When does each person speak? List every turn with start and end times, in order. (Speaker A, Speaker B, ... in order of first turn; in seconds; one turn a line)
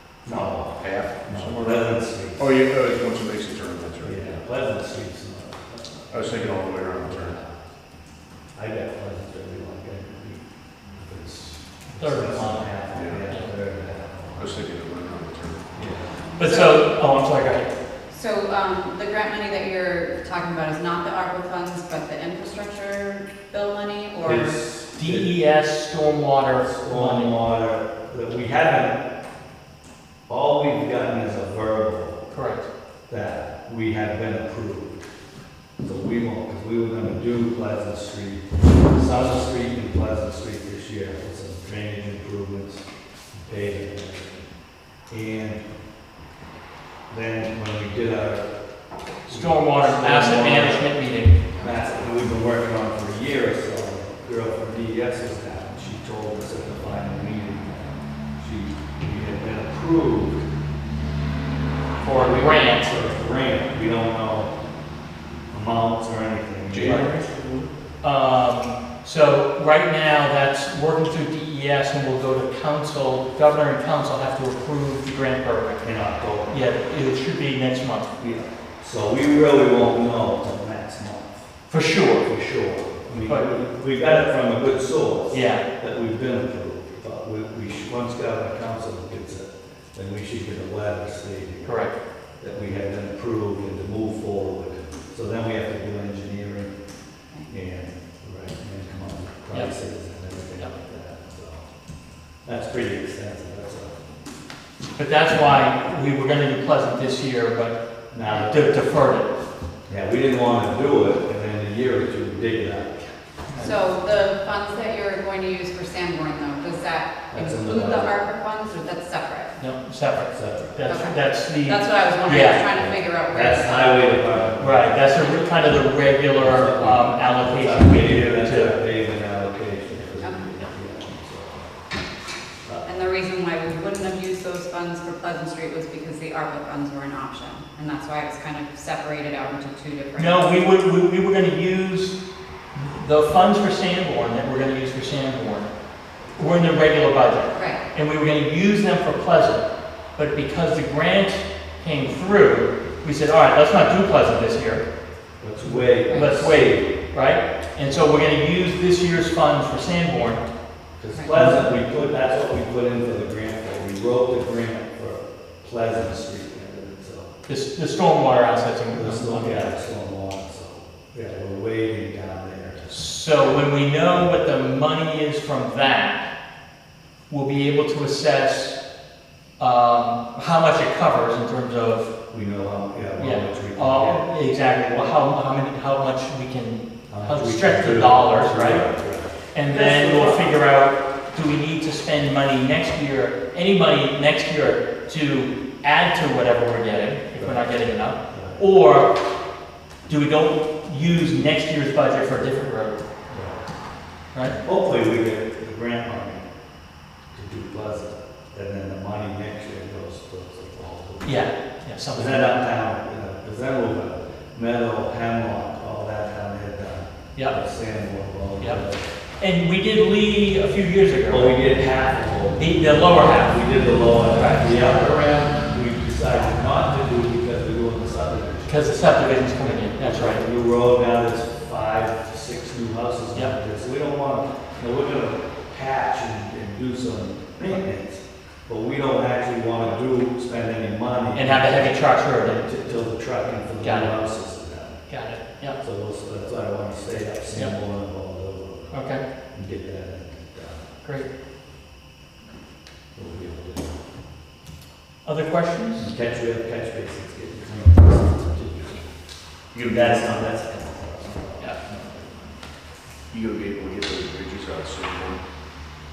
Speaker A: 0.3-2.5
Speaker B: 0.3-4.4
Speaker A: 4.0-7.6
Speaker B: 6.1-7.4
Speaker A: 8.6-14.5
Speaker C: 12.0-12.7
Speaker B: 12.9-13.2
Speaker B: 14.4-15.7
Speaker A: 15.7-16.1
Speaker D: 16.3-17.0
Speaker C: 16.4-17.7
Speaker D: 18.1-24.6
Speaker A: 24.2-25.3
Speaker C: 24.9-27.4
Speaker A: 26.6-29.0
Speaker A: 30.3-32.3
Speaker C: 32.3-32.7
Speaker A: 33.1-35.0
Speaker A: 35.8-44.4
Speaker A: 45.1-45.6
Speaker A: 47.1-48.5
Speaker A: 49.3-51.0
Speaker C: 49.3-51.4
Speaker A: 51.5-60.5
Speaker C: 62.0-62.9
Speaker A: 62.1-64.5
Speaker A: 65.5-67.2
Speaker B: 66.7-67.7
Speaker C: 68.0-75.9
Speaker A: 75.8-76.6
Speaker C: 76.5-78.1
Speaker A: 78.2-81.4
Speaker C: 81.7-82.3
Speaker A: 82.2-91.8
Speaker C: 85.3-85.6
Speaker C: 91.6-92.0
Speaker A: 92.4-96.7
Speaker A: 97.5-101.7
Speaker A: 102.5-104.0
Speaker C: 105.0-109.3
Speaker A: 108.1-108.7
Speaker A: 109.9-114.0
Speaker D: 113.6-119.6
Speaker A: 117.3-118.2
Speaker C: 119.6-122.7
Speaker A: 120.3-120.9
Speaker D: 120.9-124.2
Speaker A: 122.7-125.1
Speaker C: 124.6-128.8
Speaker D: 125.2-125.6
Speaker A: 126.2-131.7
Speaker D: 130.2-130.7
Speaker D: 132.8-140.5
Speaker C: 140.2-142.2
Speaker C: 142.7-145.7
Speaker C: 146.4-149.7
Speaker D: 147.5-147.8
Speaker C: 150.2-154.8
Speaker A: 155.4-156.9
Speaker C: 155.7-160.4
Speaker D: 156.1-156.3
Speaker A: 161.0-167.3
Speaker C: 167.5-169.7
Speaker A: 168.9-173.6
Speaker C: 172.9-176.3
Speaker C: 177.3-178.8
Speaker C: 179.6-182.1
Speaker A: 182.3-184.3
Speaker C: 183.2-188.8
Speaker A: 187.1-190.6
Speaker C: 189.5-199.2
Speaker A: 197.4-197.7
Speaker A: 198.3-198.6
Speaker C: 200.1-203.0
Speaker A: 203.3-203.6
Speaker A: 204.6-206.4
Speaker A: 207.3-211.5
Speaker C: 211.2-212.5
Speaker A: 212.1-219.0
Speaker C: 219.4-221.7
Speaker A: 221.3-245.1
Speaker C: 222.6-223.6
Speaker C: 224.3-224.8
Speaker C: 228.7-230.4
Speaker C: 241.3-242.7
Speaker C: 243.8-244.2
Speaker C: 245.1-245.8
Speaker A: 245.8-250.9
Speaker C: 248.9-249.2
Speaker C: 251.0-251.3
Speaker A: 253.2-253.9
Speaker C: 255.2-256.1
Speaker A: 256.0-259.1
Speaker B: 259.7-260.3
Speaker A: 259.8-262.5
Speaker B: 263.3-265.4